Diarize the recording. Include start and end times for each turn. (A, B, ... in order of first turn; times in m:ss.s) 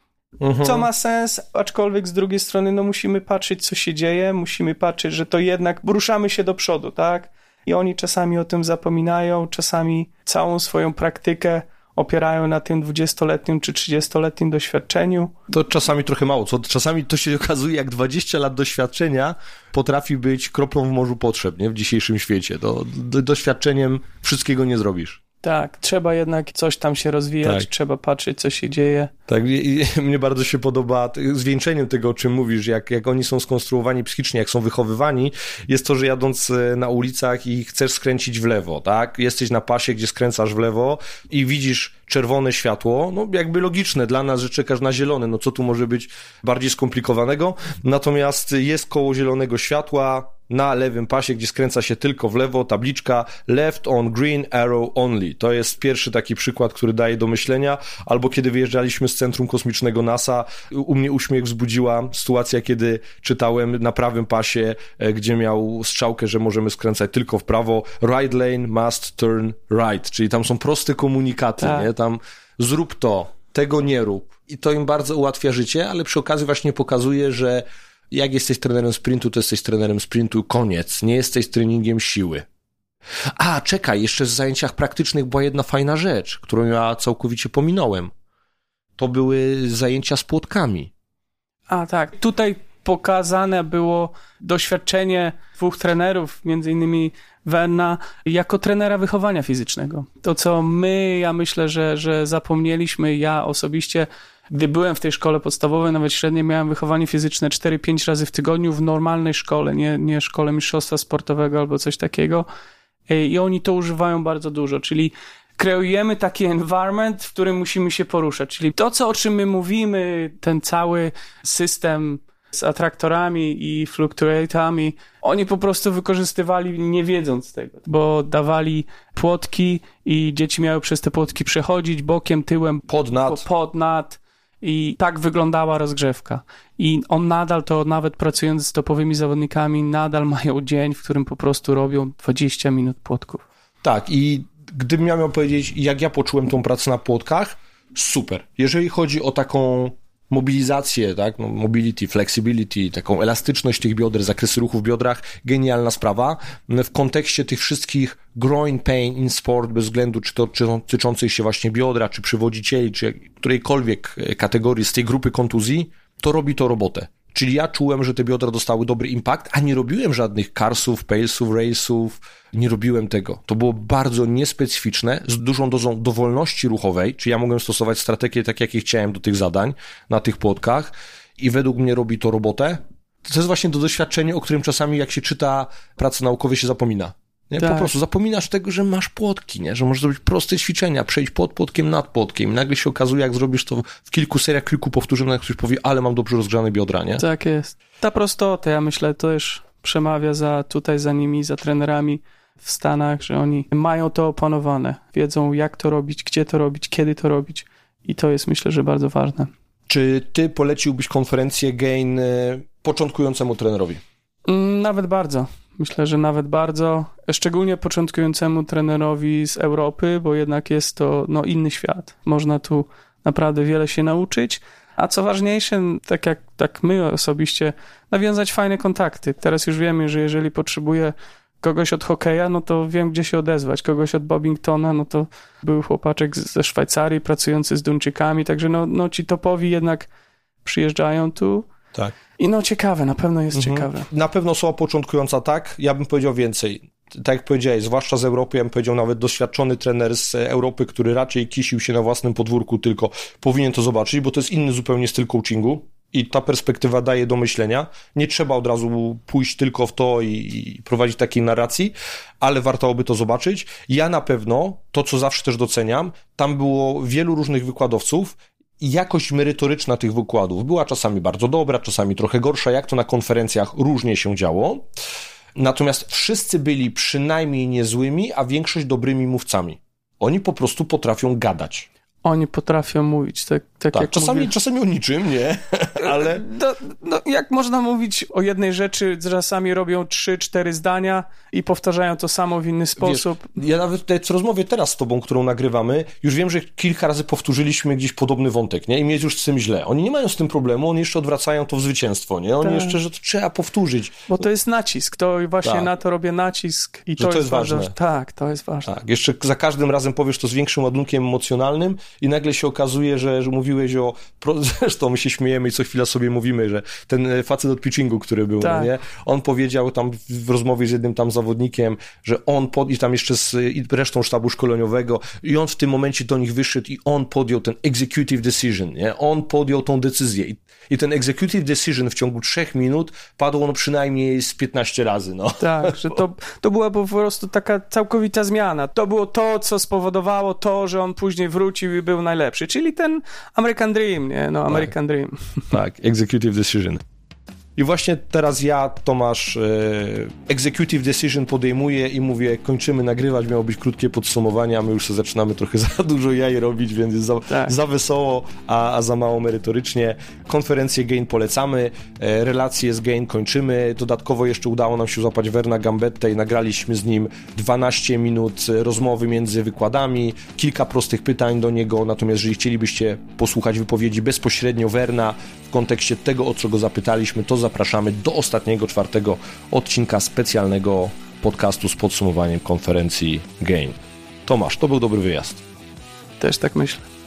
0:00.4-0:00.9 A
0:00.6-0:15.3 B
0:15.5-0:25.2 A
0:25.4-0:29.1 B
0:29.3-1:22.4 A
1:11.6-1:11.9 B
1:23.4-1:28.1 A
1:29.0-1:30.9 A
1:31.7-1:52.4 B
1:53.1-2:23.4 B
2:12.9-2:13.4 A
2:23.8-3:17.2 A
3:07.6-3:07.9 B
3:17.2-3:29.5 B
3:29.9-3:34.0 A
3:34.5-4:00.1 B
4:00.6-4:01.7 B
4:02.4-4:04.1 B
4:03.5-4:34.9 A
4:35.5-4:41.9 A
4:42.2-4:44.5 B
4:43.9-4:46.4 A
4:46.0-4:53.5 B
4:53.0-5:04.3 A
5:02.6-5:03.0 B
5:04.3-5:08.9 B
5:05.6-5:05.9 A
5:07.2-5:07.9 A
5:08.8-5:36.2 A
5:18.6-5:18.9 B
5:35.6-5:45.7 B
5:45.7-5:47.0 A
5:47.8-6:25.6 A
5:57.5-5:57.7 B
6:26.4-6:27.0 B